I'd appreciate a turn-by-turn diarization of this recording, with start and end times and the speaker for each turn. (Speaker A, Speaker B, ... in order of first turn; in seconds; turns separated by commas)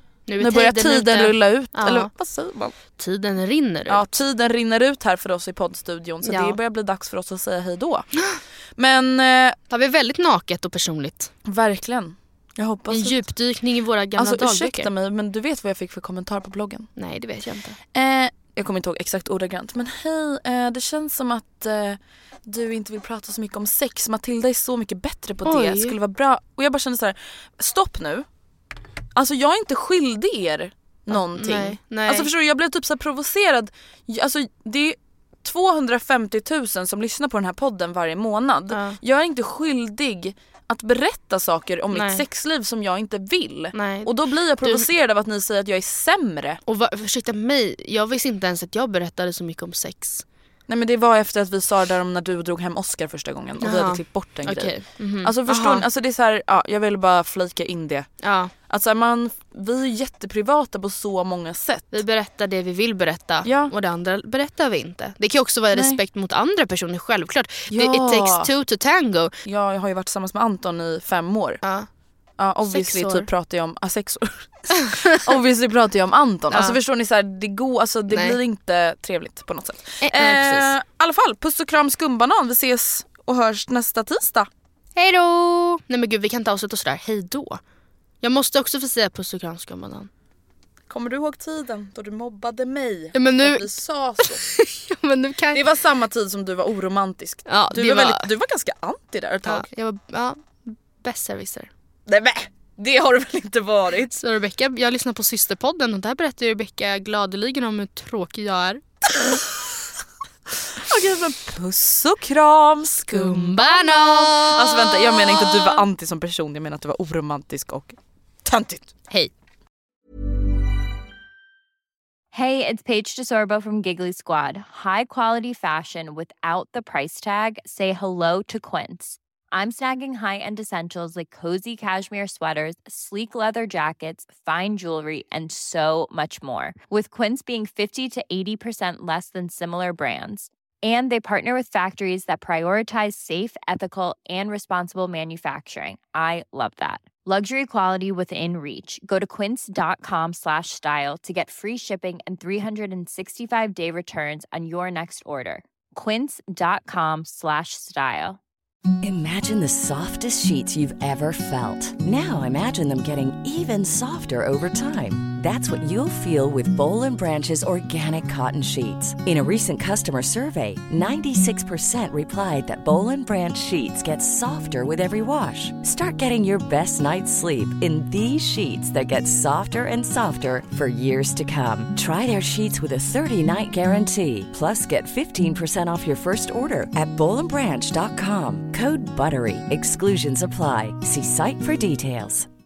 Speaker A: 0.3-2.1, Speaker B: 0.4-2.8, Speaker A: 3.0-4.2, Speaker B: 3.9-8.1, Speaker A: 6.2-6.6, Speaker B: 8.8-9.6, Speaker A: 9.7-11.3, Speaker B: 11.5-13.2, Speaker A: 12.9-14.9, Speaker B: 14.2-16.9, Speaker A: 17.0-17.8, Speaker B: 17.9-28.3, Speaker A: 25.4-25.9, Speaker B: 29.1-46.6, Speaker A: 31.1-32.3, Speaker A: 38.7-39.0, Speaker A: 41.9-42.2, Speaker A: 43.8-44.1, Speaker A: 46.7-50.2, Speaker B: 50.7-62.0, Speaker A: 53.6-55.8, Speaker A: 58.2-58.5, Speaker A: 61.9-69.3, Speaker B: 63.5-63.7, Speaker B: 65.7-66.0, Speaker B: 67.7-68.5, Speaker B: 69.5-71.6, Speaker A: 71.6-71.9, Speaker B: 72.4-84.5, Speaker A: 72.7-73.3, Speaker A: 74.9-75.3, Speaker A: 76.5-76.8, Speaker A: 78.1-78.4, Speaker A: 80.0-80.7, Speaker A: 85.0-87.6, Speaker A: 88.2-90.1, Speaker B: 90.9-94.4, Speaker A: 93.2-93.7, Speaker A: 94.2-95.6, Speaker B: 95.5-99.7, Speaker A: 97.5-98.3, Speaker A: 99.5-101.7, Speaker B: 102.1-104.1, Speaker A: 104.1-108.8, Speaker B: 109.2-109.4, Speaker B: 110.8-118.9, Speaker A: 113.1-115.8, Speaker C: 122.3-158.4, Speaker D: 159.0-192.5